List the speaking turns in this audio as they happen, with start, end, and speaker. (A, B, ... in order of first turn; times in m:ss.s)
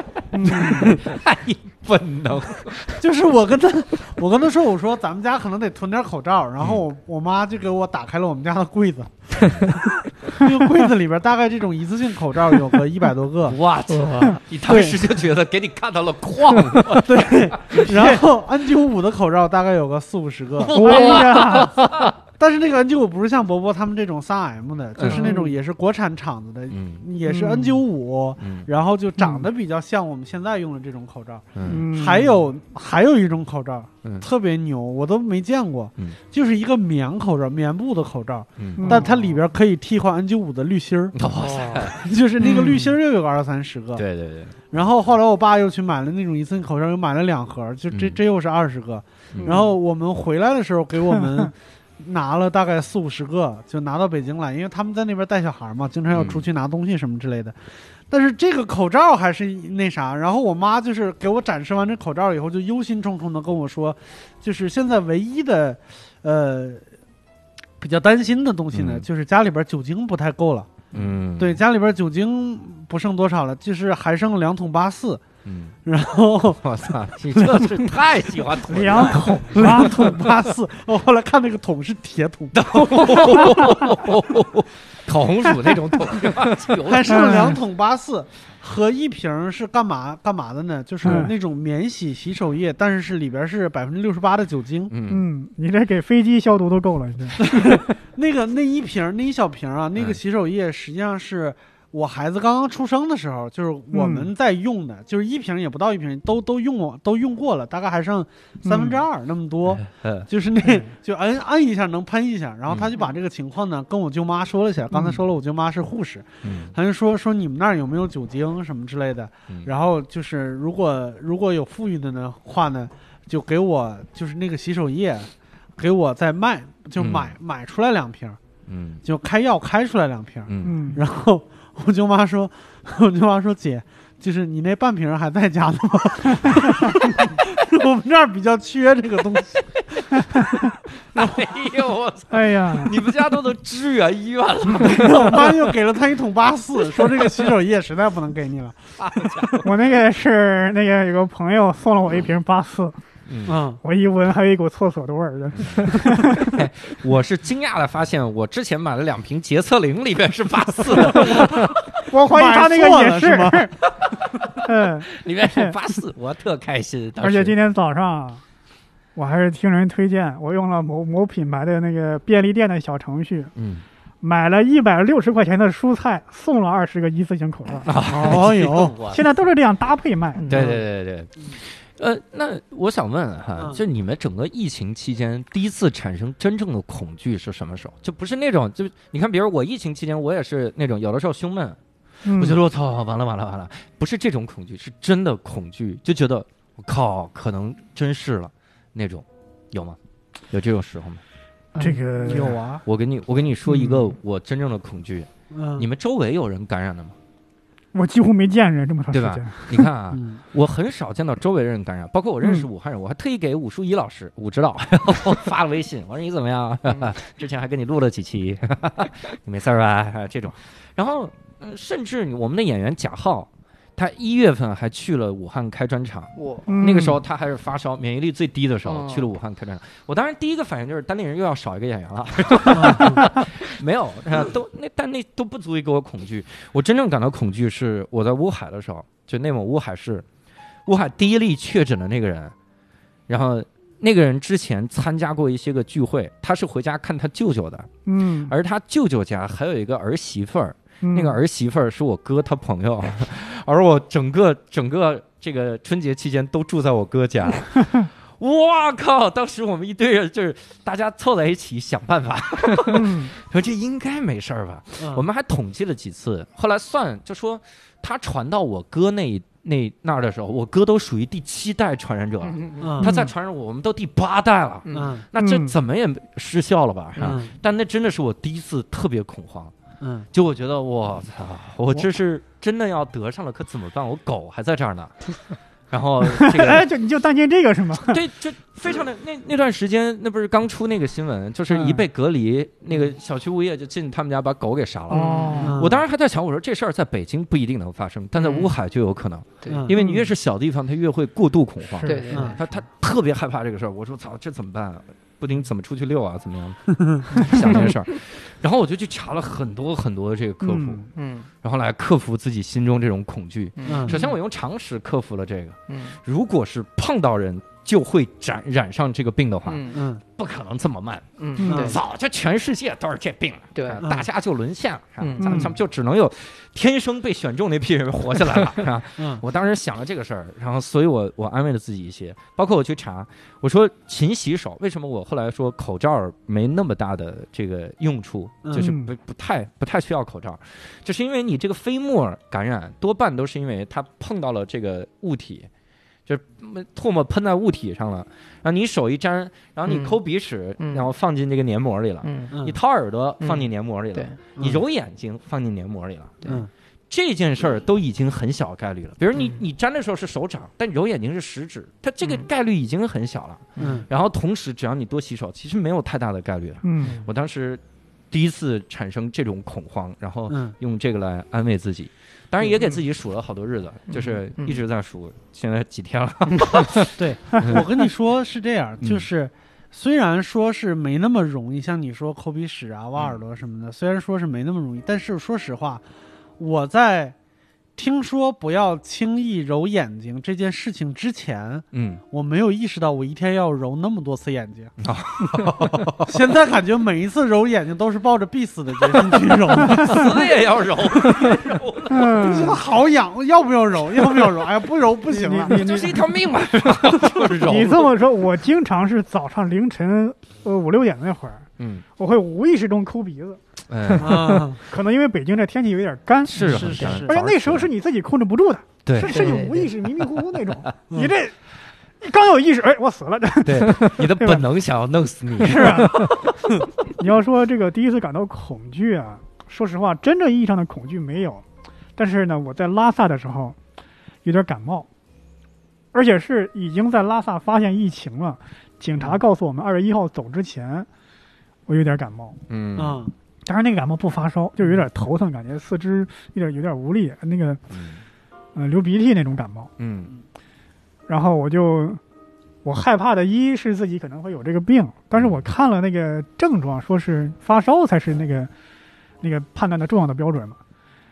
0:00.3-0:01.0 A
0:00.4-0:01.1 B
0:00.5-0:03.0 C
0:02.8-0:13.6 B
0:09.4-0:09.7 C
0:13.5-0:18.2 C
0:13.9-0:14.4 D
0:14.7-0:15.0 B
0:16.9-0:21.2 B
0:20.6-0:22.2 C
0:20.7-0:21.8 A
0:20.8-0:21.7 D
0:22.4-0:41.2 B
0:25.0-0:25.3 C
0:25.1-0:25.5 A
0:26.7-0:27.1 C
0:27.2-0:27.8 A
0:28.4-0:28.7 C
0:29.2-0:29.4 A
0:31.6-0:31.8 C
0:31.7-0:32.4 A
0:38.6-0:39.1 C
0:38.8-0:39.1 A
0:41.1-0:42.1 C
0:41.4-0:41.8 D
0:41.9-0:44.0 B
0:42.4-0:42.8 D
0:44.0-0:44.6 C
0:44.7-1:06.8 B
0:47.9-0:48.2 C
0:49.4-0:49.7 D
0:56.1-0:56.5 C
1:07.8-1:10.8 B
1:08.7-1:09.1 C
1:10.9-1:11.6 C
1:11.4-1:15.2 B
1:15.4-1:15.7 C
1:15.8-1:16.6 B
1:16.6-1:20.3 C
1:17.3-1:17.8 B
1:18.7-1:20.2 A
1:19.5-1:24.0 B
1:22.5-1:27.3 C
1:26.8-1:34.9 B
1:27.1-1:27.6 A
1:31.0-1:31.3 A
1:34.9-1:35.3 C
1:35.1-1:37.4 A
1:37.4-2:08.4 B
1:43.9-1:44.3 A
1:48.6-1:49.0 A
1:49.7-1:50.3 C
1:56.4-1:56.7 C
2:07.0-2:07.3 C
2:08.7-2:09.0 C
2:09.0-2:20.5 B
2:10.5-2:10.9 C
2:10.6-2:11.0 A
2:21.1-2:21.4 B
2:21.1-2:25.6 C
2:22.3-2:23.0 A
2:24.8-2:29.3 B
2:29.0-2:29.7 C
2:29.6-2:33.0 A
2:33.3-2:33.6 C
2:33.5-2:33.8 B
2:33.8-2:36.6 A
2:35.6-2:41.9 C
2:41.2-2:41.5 B
2:42.1-2:43.7 A
2:42.2-2:43.7 B
2:43.9-2:47.6 C
2:44.6-2:45.7 A
2:47.2-2:48.4 A
2:49.2-2:53.5 A
2:53.6-2:53.8 C
2:54.2-2:58.4 A
2:57.9-2:59.2 C
2:58.1-2:59.0 B
2:59.1-3:00.7 A
3:00.5-3:20.0 C
3:00.5-3:00.8 B
3:12.2-3:12.6 A
3:20.5-3:21.2 C
3:21.7-3:22.8 B
3:21.8-3:22.6 A
3:22.8-3:27.2 C
3:25.5-3:25.9 B
3:27.9-3:29.9 A
3:29.1-4:00.3 C
3:30.1-3:30.4 B
3:32.4-3:32.7 A
3:46.4-3:46.8 D
3:46.7-3:47.2 A
3:48.8-3:49.3 D
3:52.7-3:53.2 B
4:00.9-4:02.5 C
4:03.3-4:07.9 C
4:08.1-4:08.5 A
4:08.5-4:39.7 C
4:11.0-4:11.4 A
4:22.9-4:23.3 A
4:25.0-4:25.2 B
4:32.5-4:33.0 D
4:32.8-4:33.1 B
4:33.0-4:33.3 A
4:34.9-4:35.2 D
4:34.9-4:35.2 B
4:35.4-4:35.8 A
4:37.2-4:37.5 B
4:40.0-4:40.3 B
4:40.3-4:45.2 C
4:45.9-4:46.9 C
4:46.2-4:48.2 A
4:48.0-5:11.1 C
4:51.7-4:52.0 A
4:55.1-4:55.8 D
4:55.1-4:55.8 A
4:55.6-4:56.0 B
4:58.4-4:58.7 D
4:59.7-5:00.0 B
5:00.0-5:00.3 A
5:02.0-5:02.6 A
5:02.0-5:02.6 D
5:02.3-5:02.6 B
5:06.9-5:07.3 B
5:10.6-5:11.1 A
5:11.2-5:11.5 D
5:11.6-5:19.8 C
5:13.8-5:14.4 D
5:13.9-5:14.2 B
5:15.9-5:16.2 D
5:19.7-5:20.0 D
5:19.9-5:20.2 B
5:20.4-5:45.7 C
5:21.4-5:22.0 D
5:21.6-5:21.9 A
5:21.6-5:22.0 B
5:23.8-5:24.0 D
5:25.2-5:25.7 D
5:25.4-5:25.7 A
5:29.2-5:29.4 B
5:38.6-5:38.9 B
5:38.7-5:39.1 A
5:46.3-5:56.4 C
5:49.9-5:50.2 D
5:50.8-5:51.1 D
5:52.2-5:52.5 D
5:52.5-5:52.8 B
5:53.4-5:54.4 D
5:54.6-5:54.8 B
5:56.4-5:56.7 B
5:57.1-6:17.9 C
5:59.4-5:59.6 D
6:03.8-6:04.0 D
6:03.8-6:04.1 B
6:06.8-6:07.2 A
6:10.5-6:10.8 B
6:12.6-6:13.0 B
6:14.1-6:14.8 D
6:17.2-6:26.0 B
6:26.6-6:27.4 B
6:28.0-6:34.9 B
6:31.9-6:32.2 C
6:35.0-6:36.4 C
6:36.2-6:40.4 B
6:39.7-6:42.7 C
6:39.9-6:40.2 A
6:42.1-6:42.8 A
6:42.4-6:46.0 B
6:45.3-6:46.2 A
6:45.7-6:48.1 C
6:47.6-6:51.7 A
6:51.8-6:52.0 C
6:52.2-6:53.6 A
6:53.9-6:54.7 C
6:54.2-6:54.8 B
6:54.2-7:01.5 A
6:56.5-6:57.9 C
6:56.6-6:57.4 B
6:59.0-6:59.6 C
6:59.2-6:59.9 D
7:02.2-7:04.7 A
7:03.6-7:06.5 C
7:05.6-7:06.3 A
7:07.2-7:11.6 A
7:12.2-7:13.8 A
7:14.4-7:15.1 A
7:16.1-7:21.1 A
7:21.9-7:22.6 A
7:22.7-7:23.2 C
7:23.0-7:23.3 B
7:23.7-7:27.8 A
7:27.9-7:28.2 C
7:28.8-7:29.9 A
7:30.0-7:30.3 C
7:31.3-7:32.2 A
7:32.8-7:38.7 A
7:35.4-7:35.6 C
7:39.4-7:40.8 A